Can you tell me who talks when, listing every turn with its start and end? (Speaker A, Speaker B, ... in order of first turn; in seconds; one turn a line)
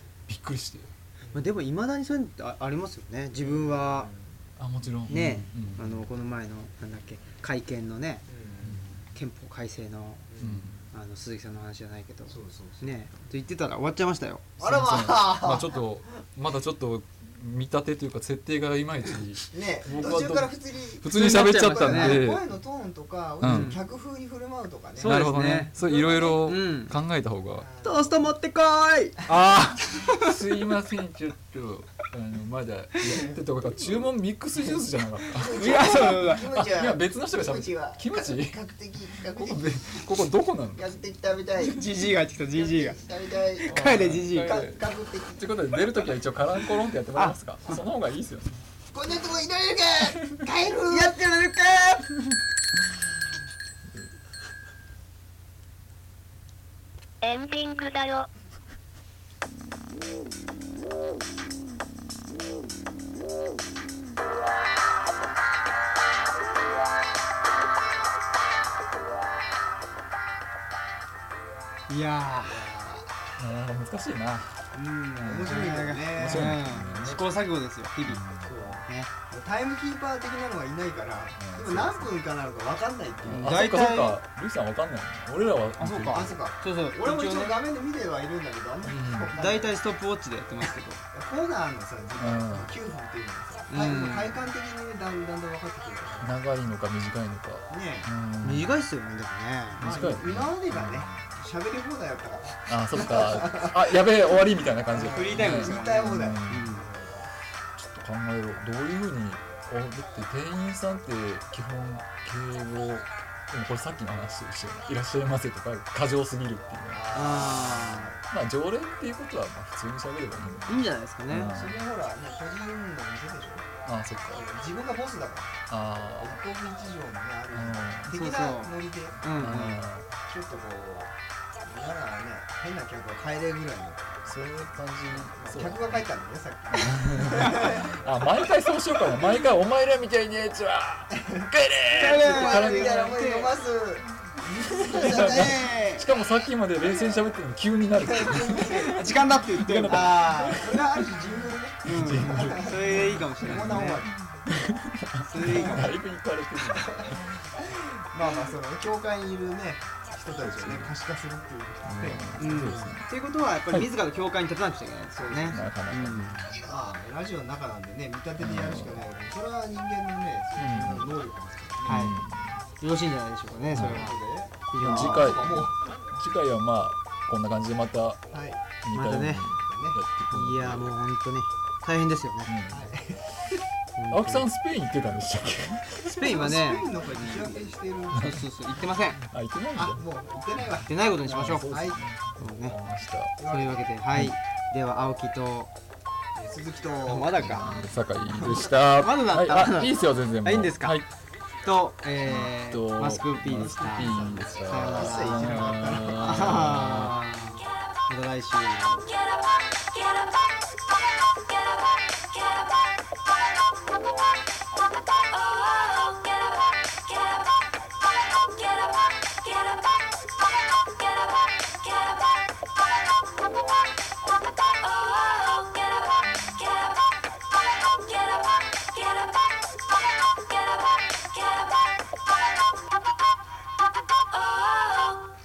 Speaker A: 0.3-0.9
Speaker B: 1.2-1.5
Speaker C: 1.3-4.1
Speaker B: 3.4-4.4
Speaker A: 4.6-6.1
Speaker C: 5.1-8.2
Speaker B: 8.3-9.0
Speaker A: 8.6-9.0
Speaker C: 9.1-10.3
Speaker B: 10.3-10.8
Speaker A: 10.4-10.8
Speaker C: 10.9-14.6
Speaker B: 12.3-13.0
Speaker B: 14.6-15.8
Speaker A: 14.6-22.4
Speaker B: 19.5-21.1
Speaker C: 21.1-22.2
Speaker B: 21.8-25.2
Speaker A: 23.4-23.8
Speaker C: 23.4-23.8
Speaker C: 25.0-26.9
Speaker A: 25.0-27.7
Speaker B: 27.6-28.3
Speaker C: 27.8-30.4
Speaker A: 29.3-41.0
Speaker C: 35.2-36.5
Speaker B: 35.3-40.2
Speaker B: 40.8-41.8
Speaker C: 41.6-44.6
Speaker B: 42.5-45.5
Speaker A: 43.7-48.6
Speaker C: 47.1-47.8
Speaker B: 48.9-51.2
Speaker A: 50.0-50.5
Speaker C: 50.9-52.4
Speaker D: 57.2-58.3
Speaker C: 71.9-72.6
Speaker B: 72.4-73.2
Speaker A: 73.4-77.3
Speaker B: 74.7-76.8
Speaker C: 75.4-79.1
Speaker A: 78.1-78.8
Speaker B: 78.4-83.6
Speaker A: 81.4-82.1
Speaker A: 83.2-86.4
Speaker C: 83.4-84.2
Speaker C: 85.8-87.6
Speaker B: 86.1-89.8
Speaker A: 88.9-89.4
Speaker C: 89.3-91.0
Speaker B: 91.1-96.4
Speaker A: 92.2-92.8
Speaker C: 93.7-94.3
Speaker A: 96.2-98.7
Speaker B: 97.7-98.1
Speaker C: 98.4-99.9
Speaker A: 99.8-101.4
Speaker B: 99.8-104.0
Speaker A: 102.7-106.8
Speaker B: 104.9-107.3
Speaker C: 105.0-106.8
Speaker A: 107.8-121.8
Speaker B: 116.9-118.2
Speaker C: 117.1-118.1
Speaker C: 120.7-121.5
Speaker B: 121.3-123.7
Speaker A: 123.8-124.5
Speaker B: 124.3-129.2
Speaker A: 125.7-126.4
Speaker A: 127.5-128.3
Speaker C: 128.1-129.8
Speaker A: 129.3-130.1
Speaker B: 130.2-134.2
Speaker A: 134.2-136.0
Speaker B: 135.1-137.9
Speaker A: 136.7-143.2
Speaker B: 141.2-145.8
Speaker C: 141.9-143.5
Speaker A: 144.5-151.1
Speaker C: 145.0-146.1
Speaker B: 148.0-149.1
Speaker C: 148.7-150.5
Speaker B: 149.9-152.8
Speaker A: 151.8-157.7
Speaker C: 151.9-154.1
Speaker B: 153.4-154.2
Speaker C: 155.2-155.9
Speaker B: 155.5-155.8
Speaker B: 156.9-162.8
Speaker A: 160.4-160.9
Speaker A: 161.8-163.1
Speaker C: 162.4-166.4
Speaker B: 165.1-165.7
Speaker A: 165.5-166.6
Speaker B: 166.5-172.1
Speaker A: 168.4-169.1
Speaker A: 170.6-171.2
Speaker A: 171.8-172.6
Speaker C: 171.9-172.2
Speaker C: 172.8-174.2
Speaker B: 173.7-175.9
Speaker A: 173.7-174.1
Speaker C: 174.7-175.4
Speaker A: 174.8-178.2
Speaker B: 178.3-178.7
Speaker A: 178.8-180.9
Speaker C: 178.9-179.4
Speaker B: 179.6-180.0
Speaker C: 180.3-182.5
Speaker A: 182.5-183.0
Speaker B: 182.7-183.6
Speaker C: 184.0-184.5
Speaker A: 184.1-186.6
Speaker C: 186.1-187.4
Speaker B: 186.2-188.4
Speaker A: 188.1-190.1
Speaker C: 188.2-189.2
Speaker B: 189.8-190.9
Speaker A: 190.6-193.4
Speaker C: 190.9-191.8
Speaker B: 191.7-192.0
Speaker C: 192.4-192.8
Speaker B: 193.4-193.9
Speaker C: 193.4-195.7
Speaker B: 196.3-198.7
Speaker C: 197.1-197.8
Speaker A: 197.3-201.1
Speaker C: 198.8-201.0
Speaker C: 201.6-209.1
Speaker A: 202.2-207.2
Speaker B: 204.0-207.5
Speaker D: 210.0-210.4
Speaker D: 215.5-217.6
Speaker D: 218.6-220.1
Speaker D: 221.1-222.5
Speaker D: 224.6-232.2
Speaker D: 234.3-235.2